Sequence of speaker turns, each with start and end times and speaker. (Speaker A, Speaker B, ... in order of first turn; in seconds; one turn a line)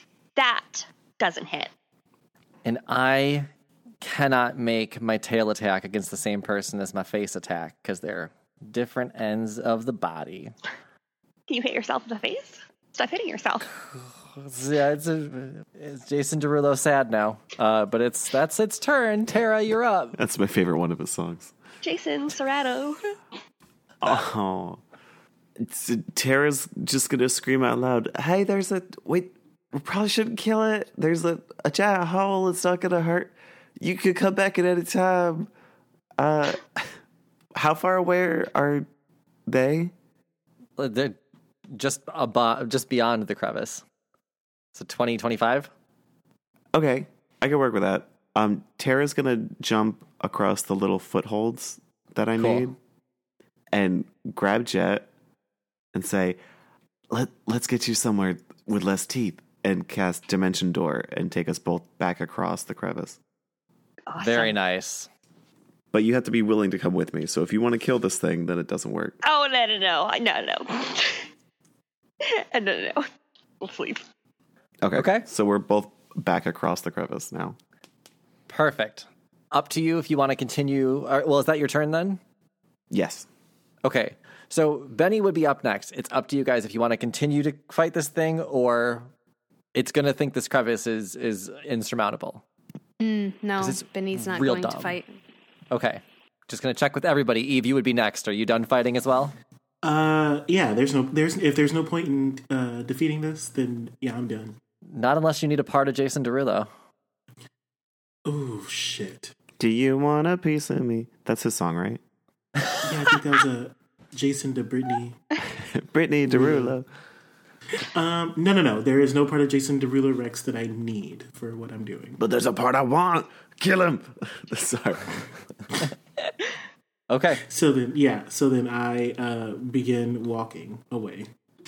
Speaker A: 0.3-1.7
Speaker B: 2.6-3.5
Speaker B: 4.0-10.5
Speaker A: 11.5-13.7
Speaker B: 14.4-20.2
Speaker C: 20.1-21.5
Speaker A: 21.8-23.0
Speaker C: 24.0-24.8
Speaker C: 25.6-35.5
Speaker C: 36.2-36.9
Speaker C: 37.5-38.9
Speaker C: 39.5-39.9
Speaker B: 40.8-41.1
Speaker B: 41.7-43.8
Speaker B: 44.7-45.7
Speaker C: 46.7-52.8
Speaker B: 52.4-52.6
Speaker C: 53.7-55.1
Speaker C: 55.9-56.4
Speaker C: 57.1-63.2
Speaker A: 64.1-64.5
Speaker B: 64.2-65.1
Speaker C: 65.9-69.2
Speaker A: 69.2-71.3
Speaker A: 72.2-73.1
Speaker A: 73.6-74.0
Speaker C: 74.8-77.6
Speaker B: 74.9-75.2
Speaker B: 78.5-82.2
Speaker C: 82.9-83.3
Speaker B: 83.8-89.1
Speaker B: 89.7-92.4
Speaker D: 93.0-95.1
Speaker B: 93.6-95.0
Speaker B: 95.7-99.3
Speaker E: 99.8-104.6
Speaker B: 104.9-106.7
Speaker E: 108.2-109.4
Speaker C: 109.6-112.0
Speaker E: 112.8-115.2
Speaker C: 115.6-116.9
Speaker E: 116.3-116.7
Speaker E: 117.9-122.2
Speaker C: 122.2-125.4
Speaker B: 127.1-127.4
Speaker E: 127.4-131.3